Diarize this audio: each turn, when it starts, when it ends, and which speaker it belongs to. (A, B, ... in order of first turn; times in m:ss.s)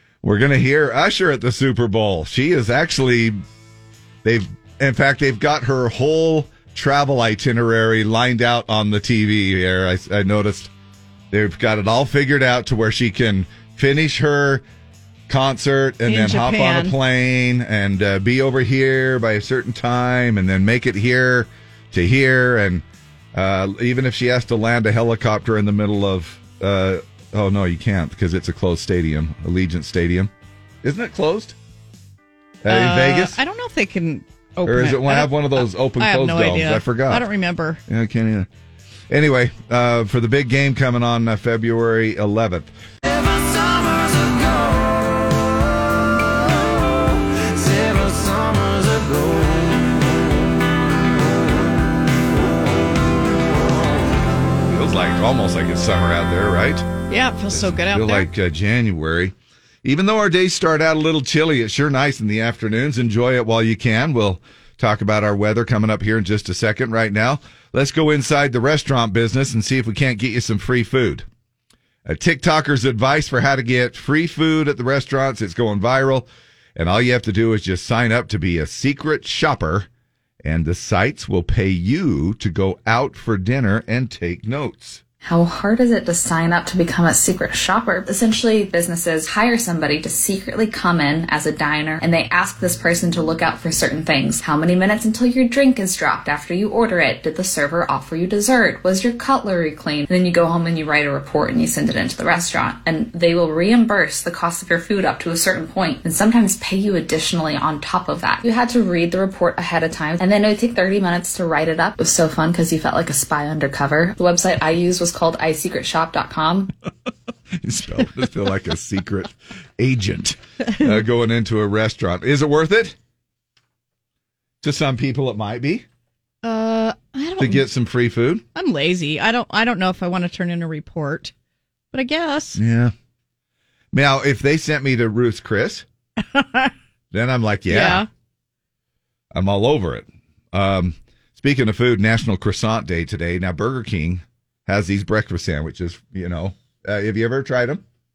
0:00.2-0:03.4 A
0:04.2-0:10.7 A
0:11.3-0:14.6 A
0:15.3-0:30.3 A
0:16.0-0:17.0 B
0:30.8-0:31.6 A
0:32.6-0:33.4 A
0:32.7-0:37.8 B
0:34.6-0:37.2 A
0:37.9-0:38.5 A
0:39.1-0:42.7 A
0:43.4-0:44.4 C
0:47.7-0:49.9 C
0:54.6-0:56.8 A
0:57.1-0:58.3 B
0:57.5-1:11.2 A
1:12.0-1:19.9 A
1:20.4-1:25.0 A
1:25.2-1:56.7 D
1:57.6-2:03.0 A
2:04.6-2:05.8 A
2:06.4-2:07.6 B
2:07.4-2:08.4 A
2:08.5-2:11.3 B
2:11.9-2:12.6 B
2:12.6-2:12.9 A
2:13.9-2:15.8 A
2:16.3-2:16.7 B
2:17.1-2:18.0 A
2:17.7-2:18.1 B
2:19.3-2:27.8 A